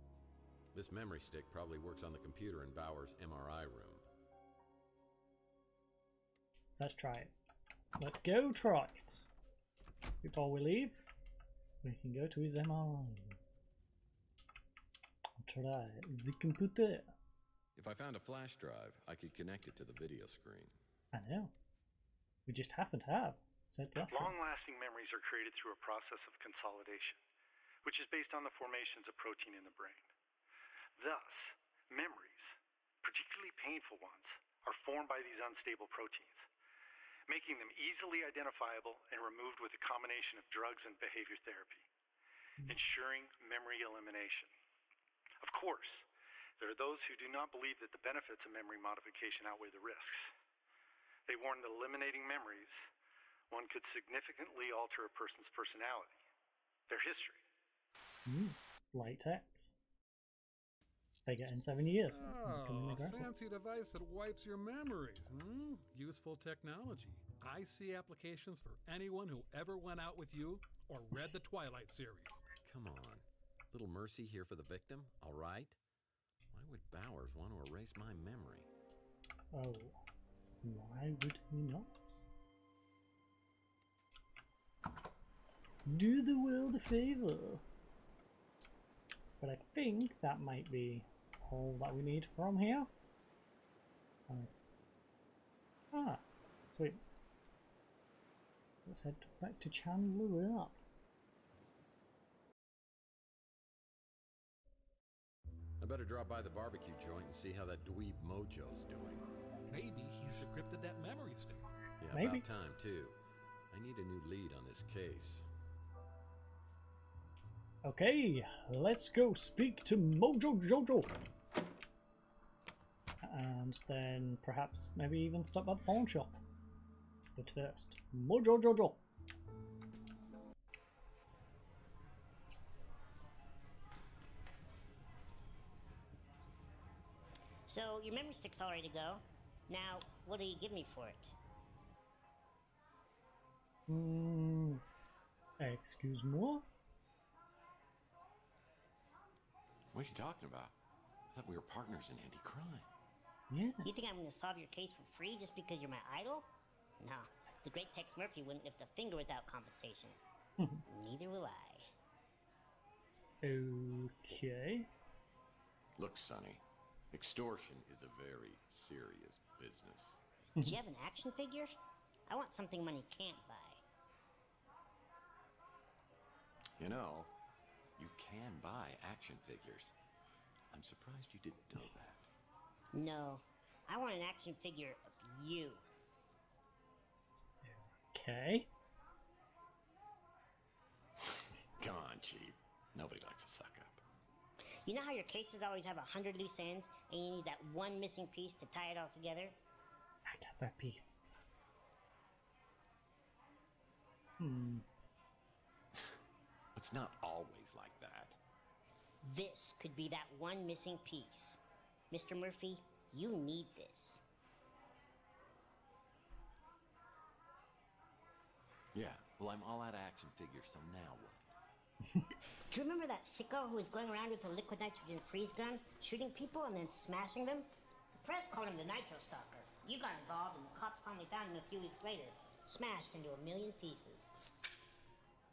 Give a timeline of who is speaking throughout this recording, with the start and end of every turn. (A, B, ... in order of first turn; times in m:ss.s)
0:00.7-0:04.0 A
0:06.8-0:07.3 B
0:08.0-0:09.3 B
0:10.2-0:11.1 B
0:11.8-0:13.4 B
0:15.4-0:17.1 B
0:17.8-0:20.7 A
0:21.1-0:21.5 B
0:22.4-0:24.4 B
0:24.0-0:27.2 C
0:27.8-0:30.1 C
0:31.0-0:36.5 C
0:37.3-0:41.8 C
0:42.6-0:44.5 C
0:45.4-0:46.0 C
0:46.6-0:50.3 C
0:51.3-0:52.8 C
0:53.5-0:56.1 C
0:56.9-0:57.4 C
0:58.2-0:59.7 B
1:01.2-1:03.3 B
1:02.1-1:12.4 D
1:12.6-1:15.8 A
1:16.5-1:18.7 A
1:19.5-1:20.0 B
1:20.6-1:22.3 B
1:25.8-1:27.6 B
1:29.4-1:32.9 B
1:35.9-1:37.0 B
1:38.8-1:40.8 B
1:45.8-1:49.2 A
1:49.7-1:51.7 D
1:52.0-1:53.2 A
1:52.1-1:52.4 B
1:53.7-1:55.4 A
1:57.8-2:01.1 B
2:03.2-2:06.4 B
2:07.4-2:09.0 B
2:17.7-2:21.3 E
2:23.9-2:24.8 B
2:25.6-2:26.6 B
2:29.9-2:30.7 A
2:31.3-2:32.9 A
2:33.5-2:33.9 B
2:33.8-2:36.5 E
2:37.0-2:40.2 E
2:40.9-2:41.9 E
2:43.4-2:44.9 B
2:46.0-2:46.6 A
2:47.1-2:50.2 A
2:50.6-2:51.7 E
2:52.3-2:53.8 E
2:56.8-2:57.3 A
2:58.0-2:59.9 A
3:00.7-3:02.3 A
3:02.9-3:05.8 E
3:07.6-3:08.7 B
3:11.2-3:14.0 A
3:14.8-3:19.5 E
3:20.2-3:21.3 B
3:24.4-3:24.8 B
3:26.7-3:28.4 A
3:29.2-3:34.2 E
3:38.9-3:41.4 A
3:42.7-3:47.7 E
3:48.2-3:54.3 E